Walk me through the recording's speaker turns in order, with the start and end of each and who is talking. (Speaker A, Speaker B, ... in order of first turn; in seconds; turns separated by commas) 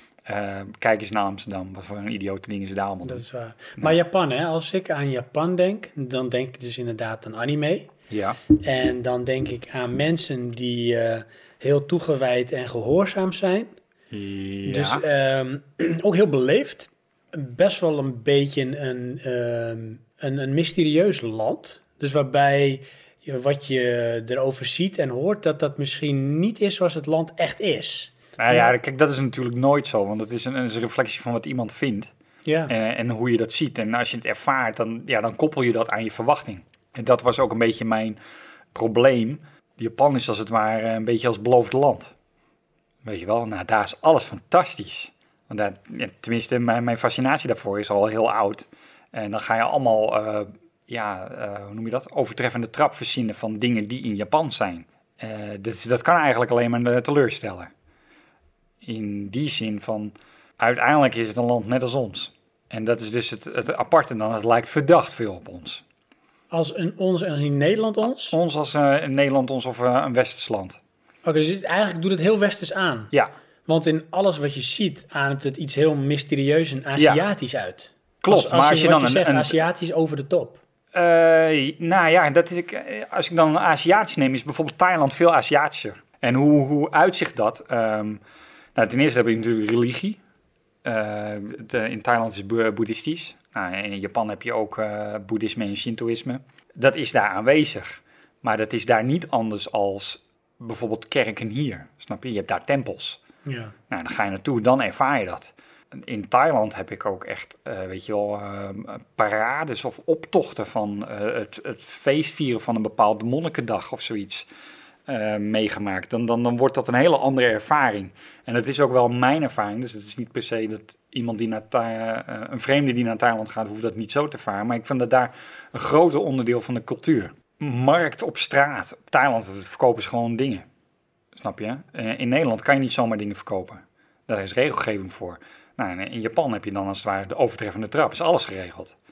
Speaker A: 0.2-3.2, Speaker B: 3.0-7.9, Speaker A: 8.1-8.4, Speaker B: 8.5-13.7, Speaker A: 14.1-15.0, Speaker B: 14.7-28.7, Speaker A: 28.4-32.1, Speaker B: 32.5-32.7, Speaker A: 32.7-38.2, Speaker A: 38.7-42.1, Speaker A: 43.0-57.7, Speaker A: 58.8-65.8, Speaker B: 66.5-68.4, Speaker A: 68.2-70.8, Speaker B: 71.2-73.1, Speaker B: 73.7-80.6, Speaker A: 77.0-77.2, Speaker A: 78.2-79.6, Speaker A: 80.9-88.2, Speaker A: 88.7-90.2, Speaker A: 90.8-103.2, Speaker B: 103.4-103.7, Speaker A: 103.9-114.5, Speaker A: 115.1-130.7, Speaker A: 131.3-138.9